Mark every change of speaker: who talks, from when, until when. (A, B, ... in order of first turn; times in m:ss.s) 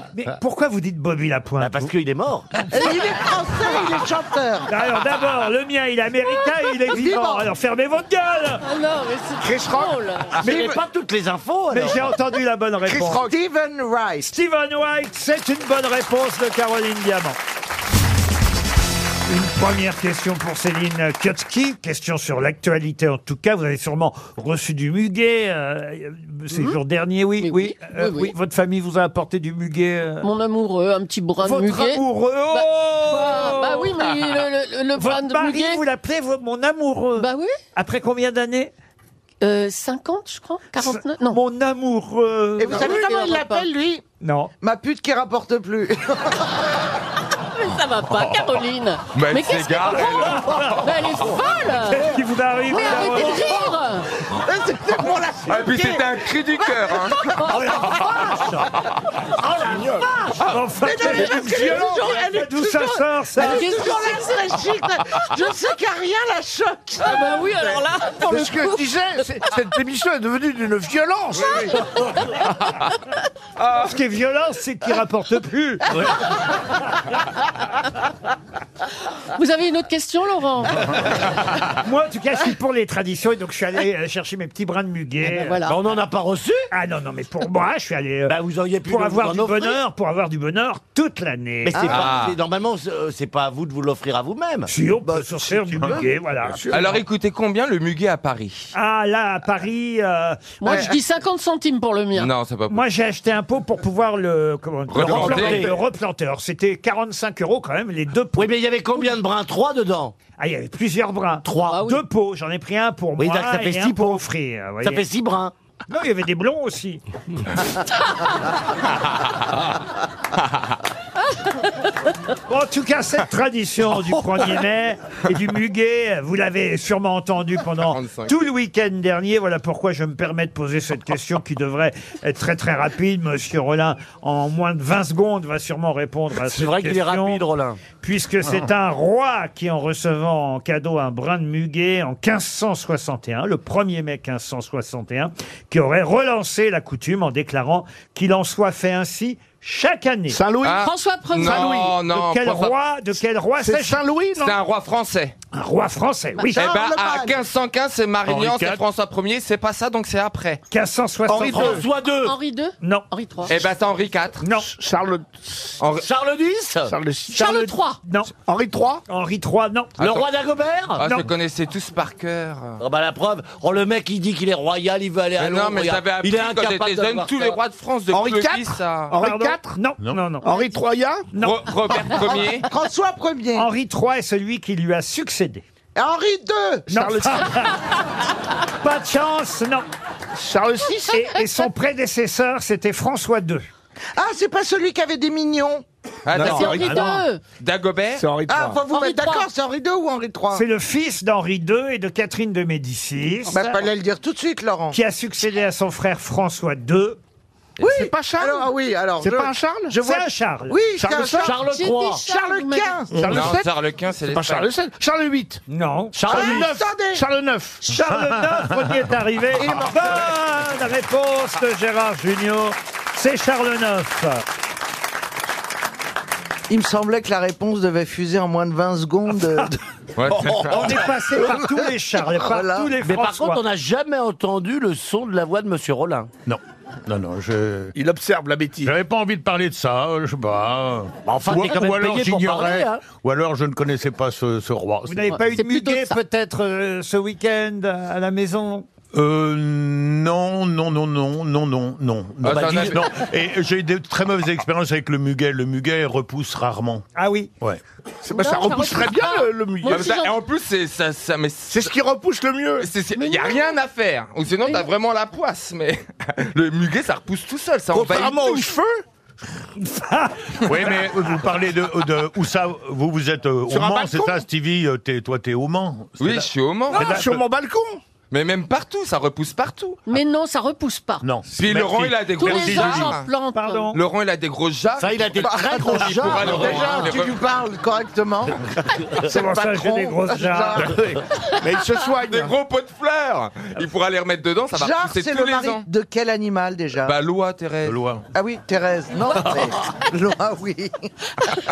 0:00.1-0:01.9 A
0:01.6-0:02.5 B
0:02.7-0:04.7 C
0:04.7-0:08.6 A
0:06.9-0:07.5 C
0:08.6-0:10.5 D
0:09.4-0:10.0 E
0:10.3-0:12.1 B
0:10.4-0:10.8 C
0:11.7-0:13.3 A
0:12.9-0:14.3 C
0:14.2-0:17.4 A
0:19.3-0:30.3 A
0:26.5-0:26.8 D
0:27.4-0:28.3 D
0:30.2-0:35.8 D
0:31.4-0:34.1 A
0:34.9-0:38.7 A
0:37.2-0:37.5 D
0:39.4-0:41.4 D
0:40.8-0:43.0 A
0:42.6-0:44.0 C
0:42.7-0:43.7 D
0:44.2-0:44.5 A
0:44.6-0:46.5 C
0:47.5-0:52.1 D
0:49.1-0:51.4 F
0:51.9-0:53.6 A
0:52.7-0:54.1 D
0:53.0-0:53.7 C
0:54.3-0:57.8 C
0:55.4-0:57.3 F
0:57.4-0:58.7 B
0:57.5-0:57.9 D
0:59.3-1:00.4 B
0:59.6-1:00.1 E
1:00.4-1:03.7 A
1:00.8-1:07.8 C
1:01.2-1:02.2 E
1:03.4-1:04.5 D
1:07.0-1:09.2 D
1:08.2-1:11.8 E
1:11.6-1:12.1 D
1:13.6-1:16.0 A
1:19.3-1:21.4 D
1:21.8-1:25.6 A
1:25.2-1:25.8 D
1:25.6-1:26.7 B
1:26.7-1:31.9 A
1:28.3-1:29.8 B
1:31.6-1:34.7 B
1:31.8-1:32.1 C
1:31.8-1:32.4 F
1:34.7-1:36.8 A
1:35.8-1:36.1 C
1:36.5-1:37.0 E
1:36.7-1:38.7 F
1:38.7-1:40.9 A
1:40.6-1:42.3 D
1:40.6-1:40.9 C
1:42.1-1:42.8 F
1:42.7-1:48.5 A
1:45.0-1:45.7 F
1:45.0-1:45.7 B
1:45.1-1:45.6 E
1:48.3-1:50.1 B
1:50.4-1:55.0 A
1:51.4-1:51.8 B
1:51.7-1:52.0 D
1:53.2-1:54.2 B
1:54.8-1:55.5 B
1:55.9-1:57.0 A
2:02.5-2:17.4 A
2:07.9-2:08.3 F
2:16.4-2:17.8 B
2:18.0-2:30.4 A
2:30.3-2:30.8 E
2:30.6-2:32.7 F
2:30.8-2:31.7 D
2:31.4-2:31.9 E
2:31.4-2:34.0 A
2:33.6-2:34.6 E
2:34.4-2:35.3 F
2:35.5-2:36.6 A
2:36.5-2:37.4 C
2:36.5-2:40.6 F
2:38.2-2:38.8 G
2:40.7-2:41.8 A
2:41.3-2:41.9 E
2:41.4-2:42.4 B
2:42.1-2:43.6 D
2:43.5-2:44.4 F
2:44.4-2:44.7 A
2:44.6-2:45.7 E
2:45.8-2:46.1 F
2:46.0-2:47.0 B
2:46.8-2:47.6 E
2:47.3-2:48.3 A
2:47.3-2:48.0 D
2:48.4-2:49.0 E
2:49.1-2:50.0 A
2:50.0-2:50.3 F
2:50.0-2:51.1 B
2:50.9-2:52.8 F
2:52.8-2:57.6 B
2:55.4-2:59.2 F
2:58.1-2:59.7 E
2:59.2-3:00.5 A
3:00.4-3:01.3 E
3:01.3-3:01.7 A
3:01.4-3:02.7 F
3:02.6-3:03.7 C
3:03.5-3:05.6 A
3:05.9-3:07.4 C
3:06.9-3:07.6 E
3:06.9-3:07.8 A
3:08.8-3:09.8 A
3:10.3-3:11.2 E
3:11.1-3:13.7 A
3:14.2-3:15.8 C
3:16.2-3:18.2 F
3:16.3-3:17.2 E
3:16.4-3:17.4 D
3:18.2-3:18.8 E
3:18.5-3:20.6 C
3:18.9-3:19.5 D
3:20.5-3:23.8 A
3:23.5-3:25.0 C
3:24.9-3:27.2 A
3:27.8-3:28.1 F
3:27.8-3:29.9 E
3:27.8-3:31.6 C
3:30.0-3:30.8 A
3:31.0-3:31.6 E
3:31.4-3:32.2 B
3:31.6-3:33.0 D
3:32.2-3:33.1 C
3:33.1-3:35.6 E
3:33.3-3:34.7 F
3:35.7-3:36.4 A
3:36.1-3:36.7 B
3:36.2-3:37.8 E
3:36.3-3:37.2 C
3:37.8-3:44.4 A
3:38.1-3:38.7 G
3:39.6-3:40.1 C
3:46.7-3:49.8 C
3:50.2-3:51.0 F
3:50.3-3:51.0 E
3:50.7-3:53.6 A
3:52.3-3:52.9 C
3:53.0-3:56.3 B
3:56.4-3:57.9 G
3:57.9-3:58.9 E
3:58.8-4:05.3 G
4:01.2-4:03.0 B
4:05.1-4:08.9 A
4:05.3-4:06.2 D
4:09.1-4:17.0 G
4:12.4-4:13.0 F
4:12.4-4:13.1 B
4:17.2-4:17.5 A
4:18.2-4:20.0 E
4:18.3-4:20.4 D
4:19.8-4:21.9 F
4:21.7-4:22.9 E
4:22.8-4:28.7 F
4:23.2-4:23.7 D
4:27.9-4:29.0 E
4:29.8-4:31.0 A
4:30.6-4:37.4 G
4:33.7-4:34.4 E
4:36.2-4:37.3 F
4:36.9-4:38.0 E
4:38.3-4:40.0 F
4:40.0-4:41.3 D
4:41.2-4:43.1 G
4:41.6-4:43.3 F
4:42.3-4:43.9 D
4:43.5-4:44.0 A
4:43.9-4:47.4 F
4:45.0-4:47.1 B
4:45.8-4:51.1 C
4:49.2-4:50.9 A
4:51.6-4:52.5 E
4:52.3-4:55.8 F
4:54.7-4:57.1 C
4:57.0-4:58.0 F
4:57.8-4:58.2 G
4:58.3-5:01.1 C